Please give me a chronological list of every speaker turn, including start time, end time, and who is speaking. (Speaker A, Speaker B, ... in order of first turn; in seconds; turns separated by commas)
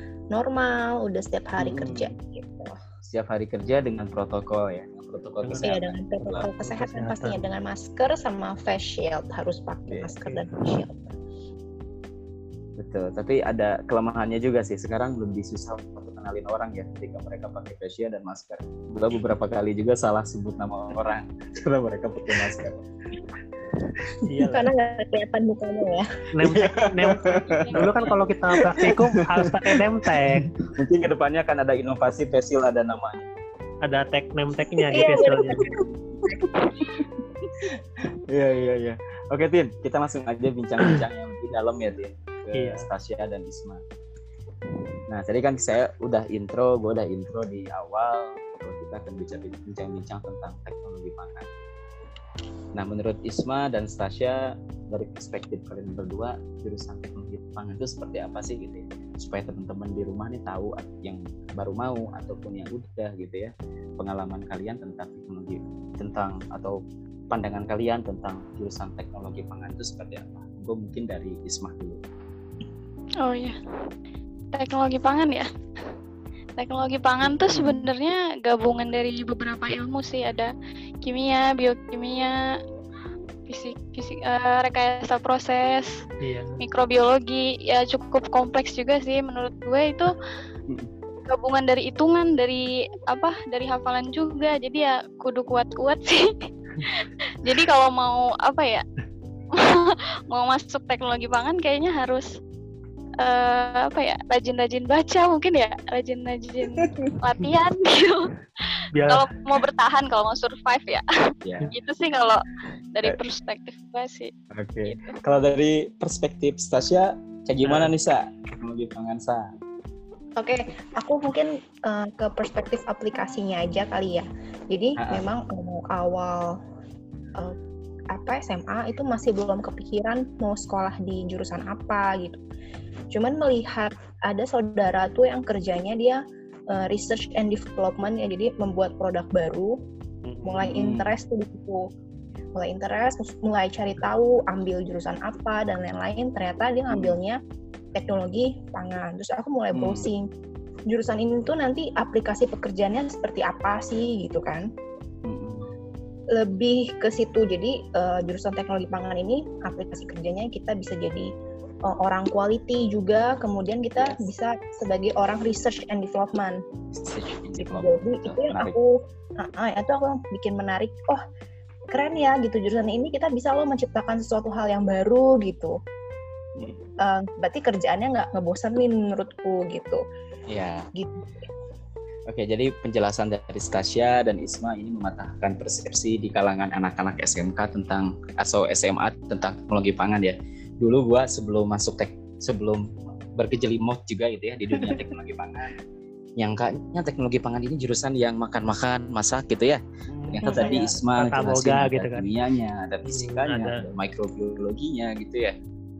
Speaker A: 0.3-2.8, Speaker B: 1.6-2.1, Speaker B: 3.0-6.5, Speaker C: 5.4-7.5, Speaker A: 5.6-11.1, Speaker B: 12.8-22.8, Speaker C: 24.3-24.7, Speaker A: 24.4-26.1, Speaker C: 26.3-30.5, Speaker B: 26.4-33.3, Speaker D: 27.2-28.1, Speaker C: 33.8-35.7, Speaker A: 34.9-36.7, Speaker B: 35.0-36.4, Speaker B: 37.6-43.8, Speaker C: 42.5-42.9, Speaker B: 45.1-51.5, Speaker B: 52.7-66.8, Speaker B: 67.3-72.0, Speaker D: 73.2-73.6, Speaker D: 74.5-75.5, Speaker D: 76.6-82.3, Speaker D: 83.5-86.0, Speaker C: 86.2-86.6, Speaker D: 86.6-90.1, Speaker D: 91.2-98.8, Speaker D: 99.5-102.3, Speaker D: 103.2-108.3, Speaker C: 108.9-109.3, Speaker D: 109.0-114.3, Speaker B: 111.4-111.7, Speaker B: 114.5-119.5, Speaker D: 114.8-115.2, Speaker C: 117.6-117.9, Speaker A: 120.4-126.6, Speaker B: 125.0-125.2, Speaker A: 128.1-132.4, Speaker A: 133.1-139.8, Speaker C: 140.2-140.7, Speaker A: 140.4-141.9, Speaker B: 140.7-141.1, Speaker A: 142.5-147.4, Speaker B: 146.9-147.2, Speaker A: 147.9-150.3, Speaker B: 149.7-150.1, Speaker A: 150.9-154.7, Speaker B: 155.2-155.7, Speaker A: 156.3-161.3, Speaker A: 161.8-166.6, Speaker B: 164.0-164.2, Speaker B: 166.9-168.7, Speaker A: 167.6-171.2, Speaker A: 171.9-175.7, Speaker A: 177.0-180.0, Speaker B: 180.5-180.9, Speaker A: 180.9-181.3, Speaker B: 182.3-195.7, Speaker B: 196.4-205.5, Speaker C: 200.1-202.3, Speaker A: 200.4-200.8, Speaker C: 203.0-203.8